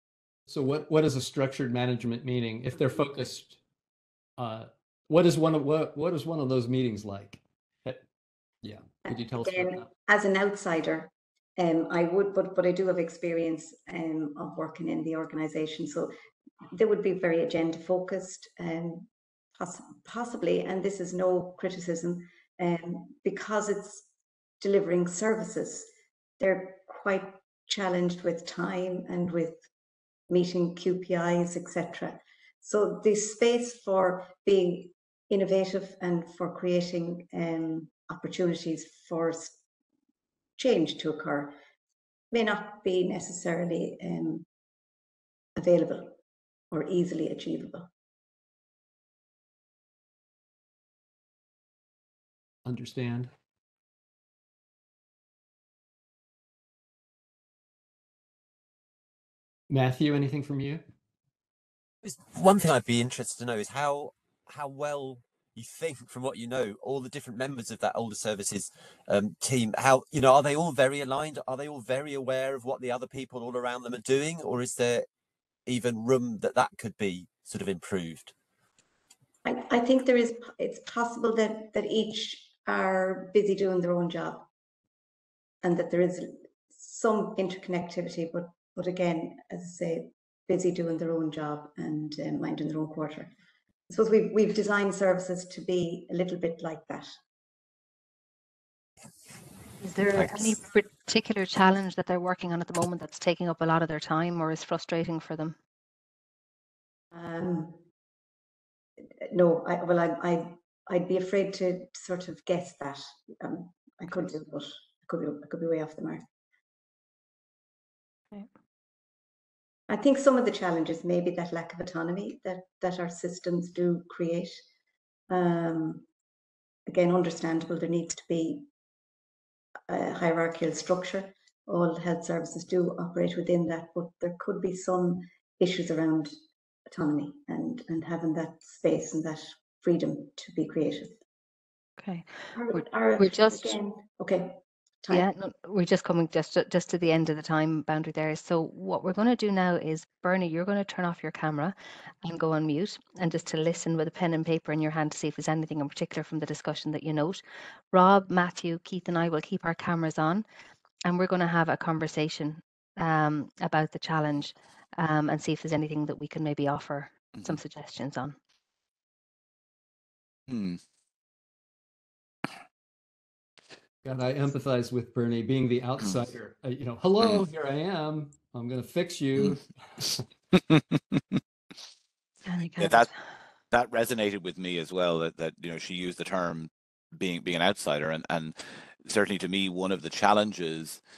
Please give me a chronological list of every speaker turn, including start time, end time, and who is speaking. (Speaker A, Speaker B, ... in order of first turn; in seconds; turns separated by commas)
Speaker A: 0.5-3.6, Speaker A: 4.4-8.0, Speaker A: 8.6-9.9, Speaker B: 9.1-16.1, Speaker B: 16.7-24.1, Speaker B: 24.6-25.9, Speaker B: 26.4-29.6, Speaker B: 30.3-39.6, Speaker B: 40.6-41.5, Speaker B: 42.3-44.5, Speaker B: 45.5-46.2, Speaker B: 46.7-47.9, Speaker A: 52.6-53.3, Speaker A: 59.7-60.8, Speaker C: 62.0-75.0, Speaker C: 75.7-78.3, Speaker B: 79.4-84.5, Speaker B: 85.6-93.3, Speaker B: 93.9-97.1, Speaker D: 99.8-105.5, Speaker E: 100.1-100.5, Speaker B: 107.1-107.8, Speaker B: 109.3-116.2, Speaker B: 119.9-124.6, Speaker B: 125.3-126.0, Speaker B: 126.9-128.7, Speaker B: 129.9-136.3, Speaker B: 136.9-141.2, Speaker D: 142.0-143.8, Speaker B: 142.5-145.2, Speaker D: 145.1-157.4, Speaker D: 157.9-160.4, Speaker D: 161.1-168.3, Speaker E: 170.5-170.8, Speaker A: 174.0-180.2, Speaker E: 180.5-181.4, Speaker D: 182.4-183.1, Speaker E: 182.8-183.1, Speaker E: 183.7-191.0